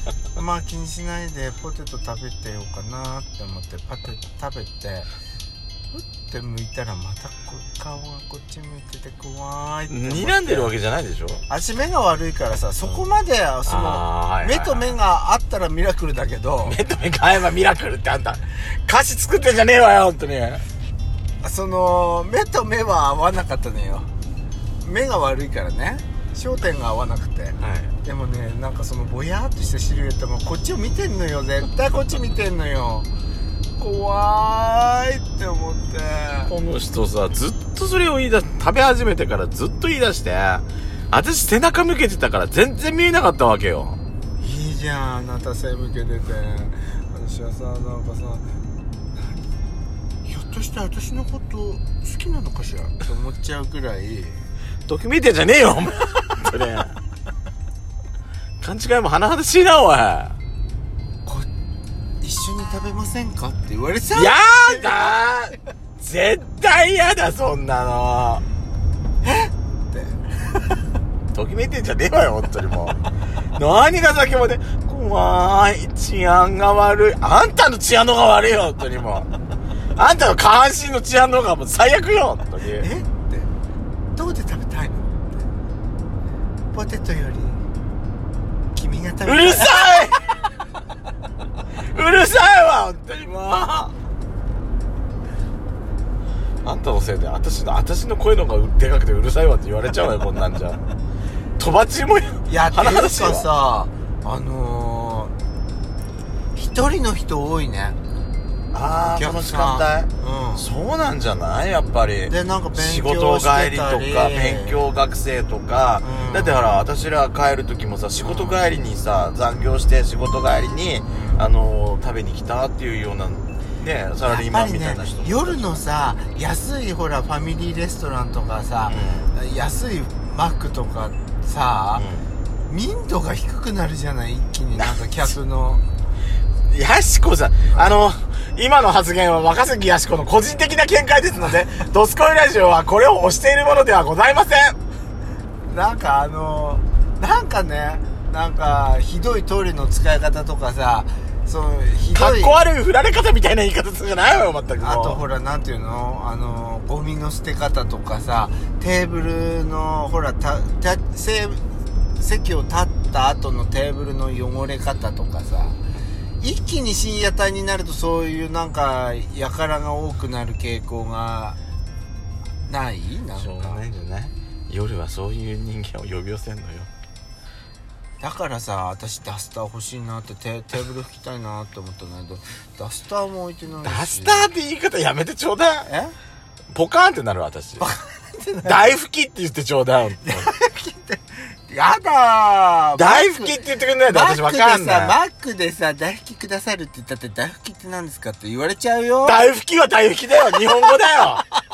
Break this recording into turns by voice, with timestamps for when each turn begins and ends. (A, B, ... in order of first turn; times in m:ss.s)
0:00.4-0:05.1 A
0:05.9-0:10.7 A
0:09.9-0:11.4 B
0:11.5-0:16.8 A
0:13.6-0:15.0 B
0:16.6-0:20.6 B
0:21.4-0:24.1 A
0:24.8-0:33.1 A
0:27.6-0:27.9 B
0:33.8-0:36.5 A
0:36.4-0:44.0 B
0:44.4-0:48.4 A
0:49.2-0:49.4 A
0:50.2-0:54.5 A
0:54.9-0:57.0 B
0:58.6-1:00.4 B
1:02.2-1:05.1 A
1:04.1-1:08.4 B
1:09.2-1:10.7 A
1:11.3-1:19.3 B
1:19.9-1:22.9 B
1:22.8-1:23.5 A
1:24.2-1:25.4 A
1:26.7-1:27.6 A
1:28.7-1:30.1 A
1:29.2-1:30.4 B
1:31.9-1:33.9 B
1:36.6-1:40.8 B
1:41.6-1:43.5 B
1:42.4-1:45.3 A
1:46.5-1:48.0 A
1:48.7-2:05.8 B
1:49.0-1:50.7 A
1:52.3-1:54.8 A
1:56.0-1:56.8 A
1:58.2-1:58.7 A
2:01.1-2:01.4 A
2:04.2-2:12.1 A
2:08.9-2:09.3 B
2:12.0-2:12.3 B
2:12.7-2:15.8 A
2:16.7-2:24.8 B
2:25.6-2:32.6 A
2:32.1-2:35.2 B
2:34.8-2:41.6 A
2:42.2-2:45.8 A
2:46.4-2:51.6 A
2:52.7-2:53.8 A
2:53.4-2:56.9 B
2:58.2-3:04.5 A
3:03.8-3:05.9 B
3:05.8-3:06.1 A
3:06.7-3:07.8 B
3:07.8-3:09.0 A
3:08.6-3:10.5 B
3:10.2-3:19.5 A
3:13.0-3:15.2 B
3:19.2-3:21.5 B